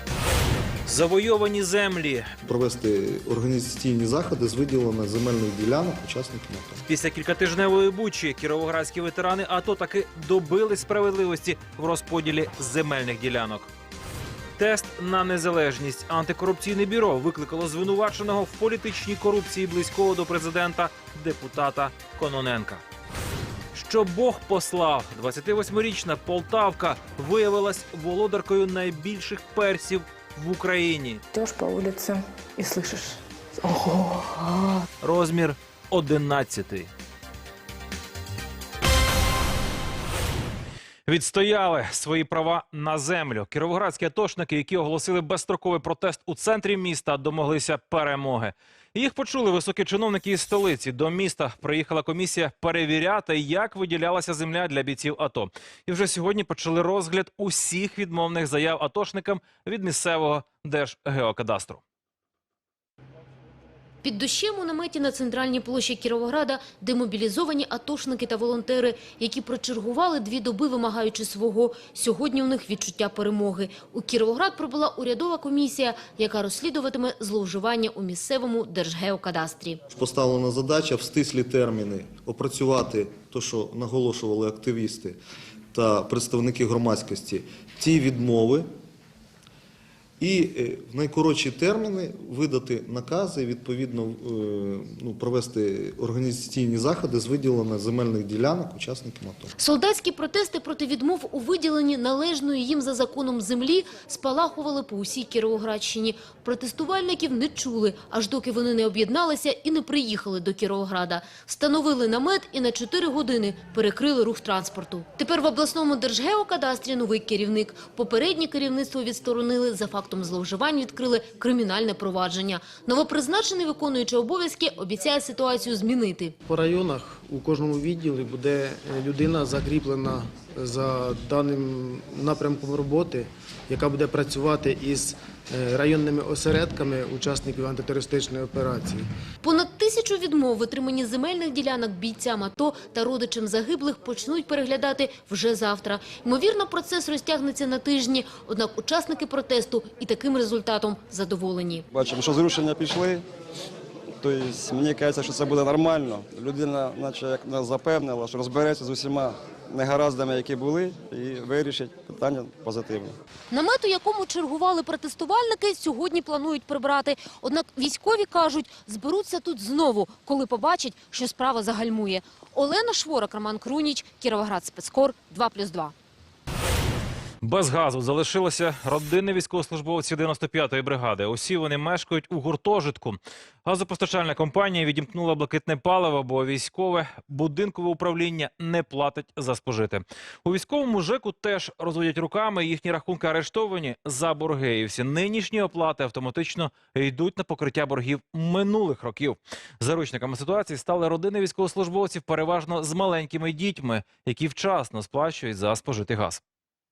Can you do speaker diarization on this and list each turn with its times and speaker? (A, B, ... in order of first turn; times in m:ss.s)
0:00.9-0:02.4 A
0:02.4-0:06.8 B
0:06.9-0:13.7 A
0:14.6-0:22.8 A
0:23.7-0:31.2 A
0:31.3-0:34.9 C
0:35.0-0:36.9 A
0:41.1-1:01.8 A
1:04.0-1:19.8 D
1:19.9-1:25.2 B
1:25.7-1:28.7 B
1:30.2-1:39.5 B
1:39.6-2:06.3 D
2:06.4-2:19.1 E
2:19.4-2:31.8 D
2:31.9-2:33.2 F
2:34.2-2:43.2 F
2:43.5-2:55.9 D
2:57.4-3:26.4 A